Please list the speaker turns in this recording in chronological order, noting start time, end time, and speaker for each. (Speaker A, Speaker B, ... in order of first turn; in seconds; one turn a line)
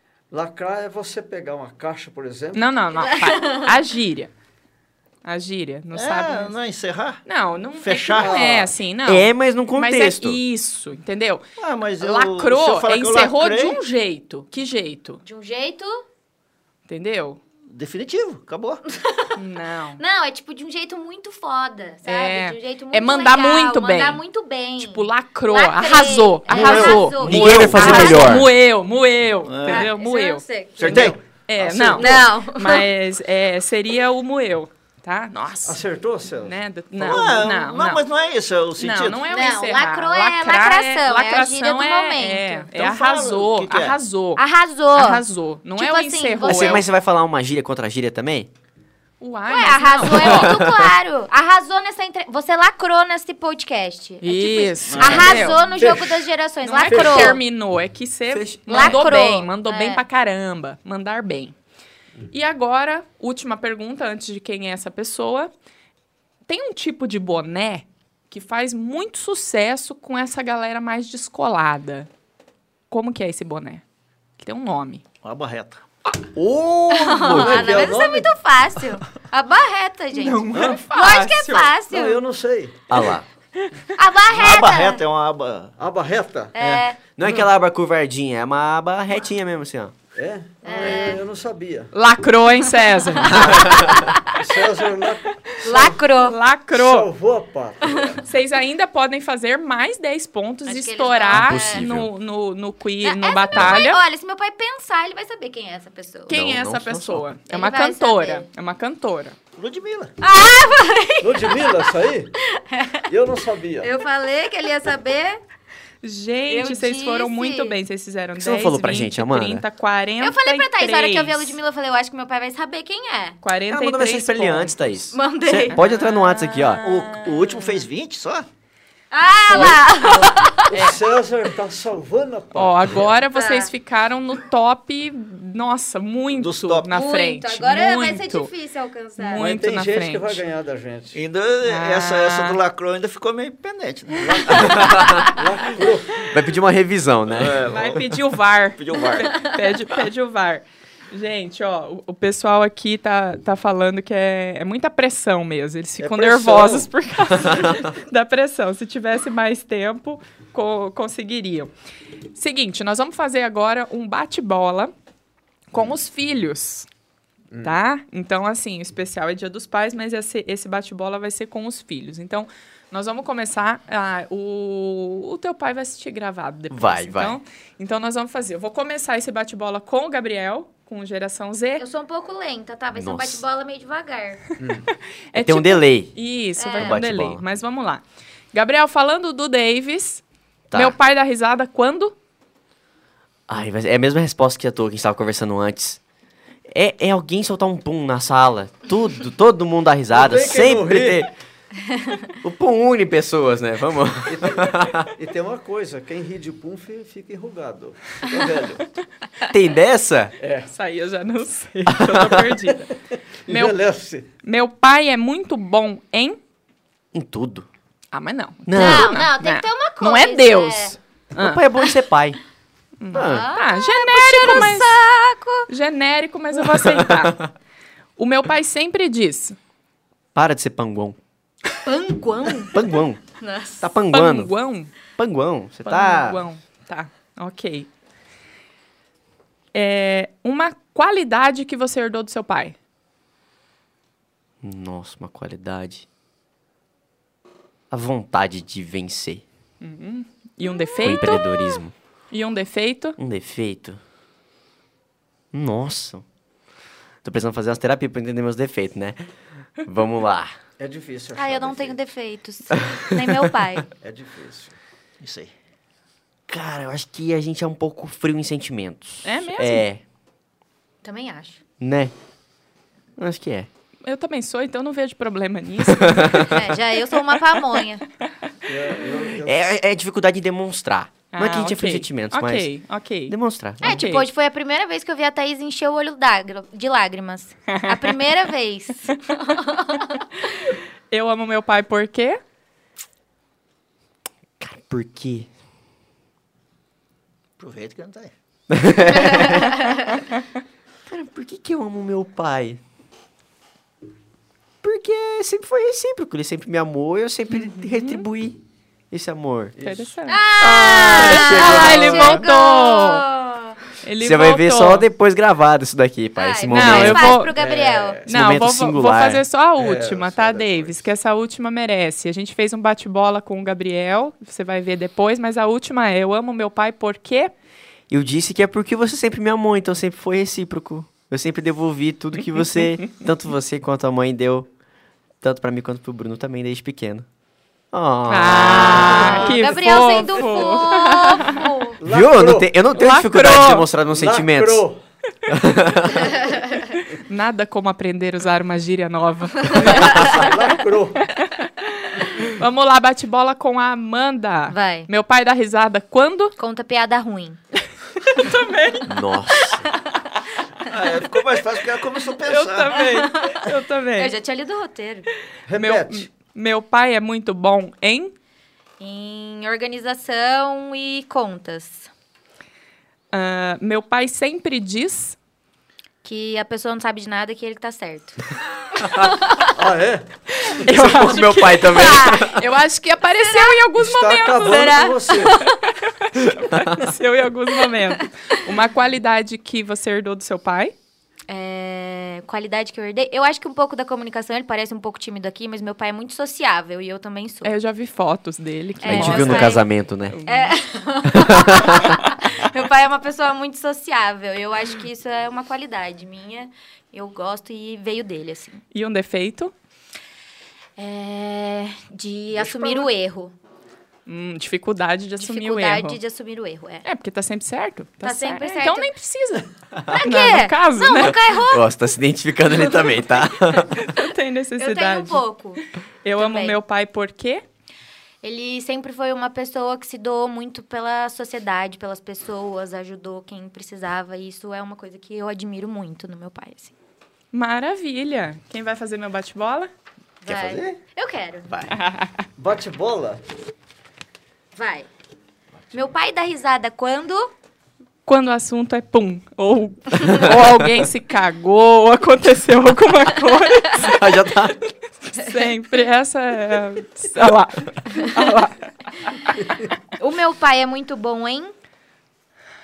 Speaker A: 0.3-2.7
Speaker B: 2.5-4.3
Speaker C: 3.0-3.7
Speaker B: 5.2-6.5
Speaker D: 5.9-7.2
Speaker B: 7.2-11.4
Speaker D: 7.8-8.7
Speaker A: 8.2-8.7
Speaker E: 9.1-10.4
Speaker D: 11.6-13.8
Speaker B: 12.0-15.2
Speaker C: 15.2-16.0
Speaker B: 16.9-17.4
Speaker D: 17.7-18.8
Speaker C: 18.9-19.3
Speaker B: 19.4-20.0
Speaker C: 20.0-28.4
Speaker B: 22.1-24.2
Speaker B: 24.8-30.4
Speaker D: 26.5-28.3
Speaker E: 26.6-28.5
Speaker D: 29.4-29.9
Speaker C: 29.7-31.1
Speaker A: 30.8-32.3
Speaker D: 30.8-31.2
Speaker B: 31.5-38.0
Speaker C: 32.0-32.9
Speaker A: 35.6-37.2
Speaker D: 37.0-39.3
Speaker B: 38.8-44.4
Speaker C: 39.3-42.7
Speaker D: 42.7-44.0
Speaker C: 44.4-45.2
Speaker B: 44.9-46.8
Speaker C: 45.8-46.9
Speaker E: 46.4-48.5
Speaker B: 49.2-50.6
Speaker C: 49.5-57.4
Speaker E: 50.1-50.9
Speaker B: 54.2-55.6
Speaker D: 54.9-55.9
Speaker A: 55.8-56.2
Speaker B: 56.6-61.5
Speaker E: 58.3-59.0
Speaker C: 58.7-60.0
Speaker B: 62.3-65.5
Speaker B: 66.5-72.1
Speaker B: 72.9-73.8
Speaker B: 74.4-75.0
Speaker D: 75.2-75.8
Speaker E: 76.3-77.9
Speaker C: 76.9-82.2
Speaker A: 77.3-78.3
Speaker B: 80.1-81.7
Speaker A: 81.9-83.0
Speaker E: 82.9-83.2
Speaker C: 84.0-85.0
Speaker D: 84.3-85.8
Speaker A: 85.8-86.6
Speaker C: 86.5-87.0
Speaker E: 87.2-89.9
Speaker A: 90.1-91.9
Speaker C: 90.6-91.2
Speaker B: 91.9-93.9
Speaker A: 93.3-96.0
Speaker E: 93.5-94.0
Speaker C: 93.8-94.3
Speaker C: 95.6-96.4
Speaker B: 96.2-97.1
Speaker A: 96.7-98.2
Speaker B: 98.2-104.0
Speaker C: 100.7-101.9
Speaker E: 101.3-102.1
Speaker C: 103.0-106.4
Speaker B: 106.3-109.4
Speaker E: 106.3-107.4
Speaker C: 107.5-108.5
Speaker D: 109.6-110.2
Speaker C: 110.2-111.8
Speaker A: 111.2-112.4
Speaker C: 112.4-113.1
Speaker A: 113.1-113.9
Speaker C: 113.8-115.4
Speaker B: 116.0-121.6
Speaker C: 116.5-117.8
Speaker E: 118.4-119.7
Speaker C: 120.2-123.4
Speaker B: 123.4-124.8
Speaker E: 123.7-126.8
Speaker C: 125.1-127.8
Speaker D: 126.8-128.5
Speaker C: 129.1-130.9
Speaker B: 129.5-129.8
Speaker A: 129.6-133.2
Speaker B: 130.7-131.0
Speaker B: 132.6-138.5
Speaker C: 133.3-133.7
Speaker D: 136.3-136.9
Speaker C: 136.9-139.4
Speaker B: 139.2-140.4
Speaker A: 139.4-141.2
Speaker D: 141.1-145.0
Speaker B: 141.7-142.6
Speaker A: 144.2-146.3
Speaker E: 144.7-145.3
Speaker E: 146.3-147.7
Speaker D: 147.3-148.1
Speaker B: 147.7-161.7
Speaker D: 148.7-149.3
Speaker A: 156.0-156.9
Speaker B: 162.3-164.9
Speaker B: 165.7-166.9
Speaker A: 167.5-167.8
Speaker B: 167.6-181.8
Speaker E: 176.7-177.4
Speaker C: 181.8-184.4
Speaker E: 182.9-183.4
Speaker A: 184.6-184.9
Speaker B: 184.9-192.2
Speaker E: 185.3-186.2
Speaker C: 186.6-187.0
Speaker E: 186.8-187.4
Speaker E: 190.7-191.0
Speaker E: 193.5-196.0
Speaker E: 196.7-201.3
Speaker A: 200.1-201.3
Speaker E: 202.4-205.1
Speaker A: 204.3-208.9
Speaker E: 209.5-210.3
Speaker A: 210.4-210.7
Speaker B: 210.7-212.9
Speaker E: 211.9-212.5
Speaker A: 213.5-214.3
Speaker B: 213.5-213.8
Speaker B: 214.4-216.4
Speaker E: 217.1-217.7
Speaker B: 218.1-221.7
Speaker E: 218.7-219.2
Speaker C: 218.7-221.0
Speaker E: 221.4-222.4
Speaker B: 223.0-225.0
Speaker E: 223.1-223.5
Speaker C: 223.1-225.7
Speaker B: 225.7-227.4
Speaker E: 226.7-227.5
Speaker B: 228.2-229.6
Speaker E: 230.3-231.2
Speaker C: 231.8-233.9
Speaker E: 232.7-233.2
Speaker E: 233.8-234.5
Speaker B: 234.1-234.9
Speaker E: 235.2-236.4
Speaker B: 235.8-237.9
Speaker B: 239.7-242.8
Speaker E: 244.6-246.1
Speaker E: 247.9-249.4
Speaker B: 249.8-251.8
Speaker E: 251.0-251.9
Speaker B: 252.3-253.2
Speaker E: 253.2-254.0
Speaker E: 255.5-256.2
Speaker E: 257.2-259.2
Speaker E: 259.9-260.6
Speaker A: 260.8-262.0
Speaker C: 261.3-263.9
Speaker E: 262.7-263.6
Speaker A: 264.0-264.8
Speaker D: 265.2-265.5
Speaker E: 266.5-270.0
Speaker B: 269.2-269.9
Speaker C: 271.0-271.6
Speaker E: 271.8-272.1
Speaker E: 273.2-273.7
Speaker B: 274.1-276.6
Speaker E: 275.9-276.6
Speaker C: 276.5-278.0
Speaker A: 278.7-279.8
Speaker E: 279.4-282.7
Speaker B: 281.3-284.2
Speaker E: 283.3-284.0
Speaker C: 283.8-290.2
Speaker B: 287.7-288.2
Speaker B: 291.1-292.4
Speaker E: 294.6-295.5
Speaker D: 297.6-298.3
Speaker E: 298.7-299.9
Speaker C: 299.3-299.6
Speaker E: 301.1-302.8
Speaker E: 304.8-308.6
Speaker B: 307.5-308.3
Speaker E: 309.1-309.7
Speaker A: 309.8-310.1
Speaker B: 309.8-313.2
Speaker C: 310.3-313.8
Speaker E: 310.6-312.5
Speaker B: 314.0-315.1
Speaker E: 314.2-317.5
Speaker C: 316.4-318.3
Speaker B: 316.7-317.5
Speaker A: 317.6-318.3
Speaker E: 318.3-319.4
Speaker B: 318.3-327.5
Speaker A: 319.8-321.1
Speaker E: 328.1-334.7
Speaker E: 335.4-337.3
Speaker E: 337.9-339.5
Speaker B: 338.3-341.6
Speaker C: 339.1-342.0
Speaker A: 342.0-342.7
Speaker E: 342.1-344.9
Speaker B: 342.9-343.9
Speaker A: 344.1-345.0
Speaker E: 345.5-346.3
Speaker B: 347.0-350.5
Speaker A: 349.9-351.3
Speaker B: 351.4-356.6
Speaker C: 354.7-355.1
Speaker C: 356.6-357.6
Speaker B: 358.2-359.1
Speaker E: 359.1-359.9
Speaker C: 359.6-360.0
Speaker D: 360.9-363.0
Speaker B: 362.4-364.3
Speaker C: 363.1-365.3
Speaker A: 365.7-366.3
Speaker B: 365.8-368.3
Speaker C: 369.0-372.1
Speaker B: 373.3-375.4
Speaker C: 376.2-378.4
Speaker C: 379.0-379.7
Speaker A: 379.7-380.4
Speaker B: 380.7-384.9
Speaker E: 380.9-382.6
Speaker C: 381.9-382.6
Speaker C: 383.4-383.9
Speaker A: 384.0-385.6
Speaker C: 384.6-385.8
Speaker B: 386.1-390.9
Speaker E: 386.4-387.1
Speaker C: 391.5-397.7
Speaker B: 397.6-400.7
Speaker C: 399.0-399.9
Speaker E: 399.0-400.4
Speaker C: 400.5-408.8
Speaker E: 401.3-402.2
Speaker B: 408.9-409.7
Speaker C: 411.0-413.6
Speaker B: 414.3-416.2
Speaker C: 415.4-417.1
Speaker B: 417.0-419.7
Speaker C: 418.2-419.1
Speaker C: 420.1-421.9
Speaker B: 420.2-421.4
Speaker E: 421.6-424.1
Speaker B: 424.0-425.4
Speaker C: 424.8-425.8
Speaker B: 426.2-427.6
Speaker C: 426.4-426.8
Speaker C: 428.4-436.9
Speaker B: 437.5-439.9
Speaker C: 440.4-441.7
Speaker A: 440.6-440.9
Speaker B: 441.9-442.4
Speaker A: 442.6-443.4
Speaker C: 444.7-445.1
Speaker C: 445.9-447.5
Speaker B: 448.3-454.2
Speaker E: 453.9-454.8
Speaker B: 455.3-459.5
Speaker C: 460.2-461.7